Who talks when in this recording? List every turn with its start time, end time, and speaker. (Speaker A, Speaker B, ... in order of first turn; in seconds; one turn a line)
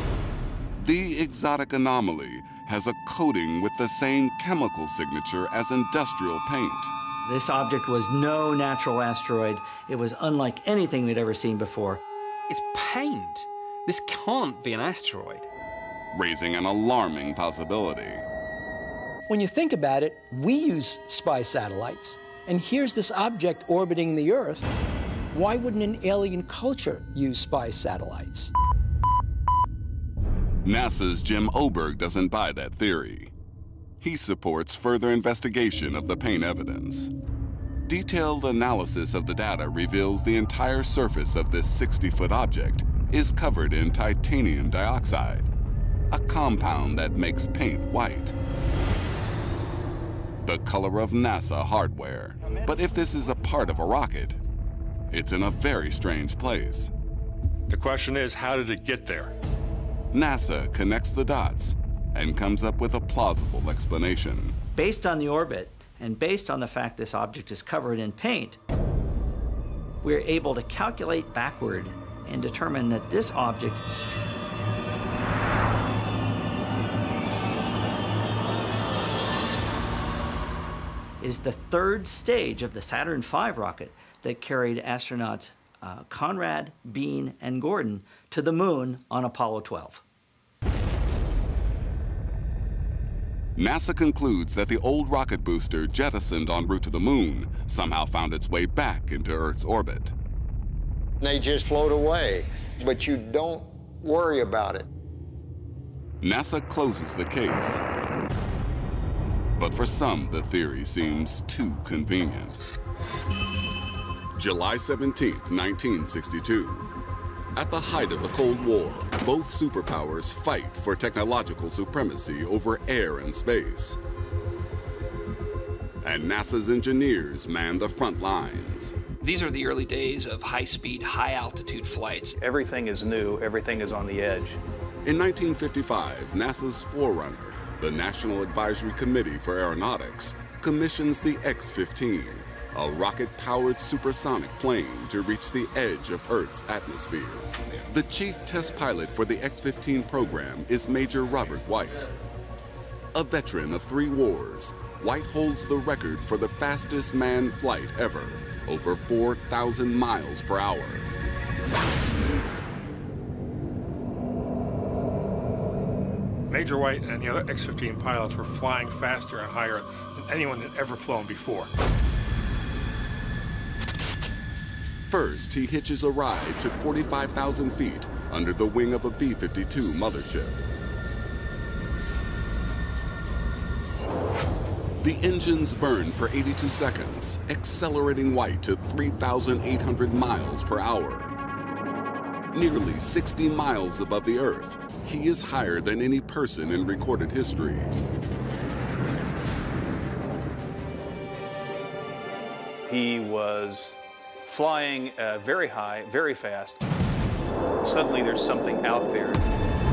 Speaker A: 0.8-6.9
Speaker B: 7.2-12.0
Speaker C: 12.5-15.5
Speaker A: 16.1-18.3
Speaker D: 19.3-24.8
Speaker D: 25.3-28.5
Speaker A: 30.6-33.3
Speaker A: 34.0-37.1
Speaker A: 37.9-45.5
Speaker A: 46.1-48.4
Speaker A: 50.4-54.4
Speaker A: 55.1-56.9
Speaker E: 57.7-59.3
Speaker A: 60.1-64.6
Speaker B: 64.8-68.6
Speaker B: 70.0-73.8
Speaker B: 81.2-90.0
Speaker A: 93.6-100.1
Speaker F: 101.2-104.9
Speaker A: 106.2-107.8
Speaker A: 109.6-112.6
Speaker A: 114.3-116.9
Speaker A: 117.5-124.0
Speaker A: 126.0-128.9
Speaker G: 129.2-132.4
Speaker H: 132.4-134.6
Speaker A: 135.1-152.1
Speaker A: 153.1-161.1
Speaker E: 166.5-171.7
Speaker A: 175.1-180.6
Speaker A: 185.0-191.3
Speaker A: 192.5-197.9
Speaker H: 202.9-206.8
Speaker H: 207.8-209.5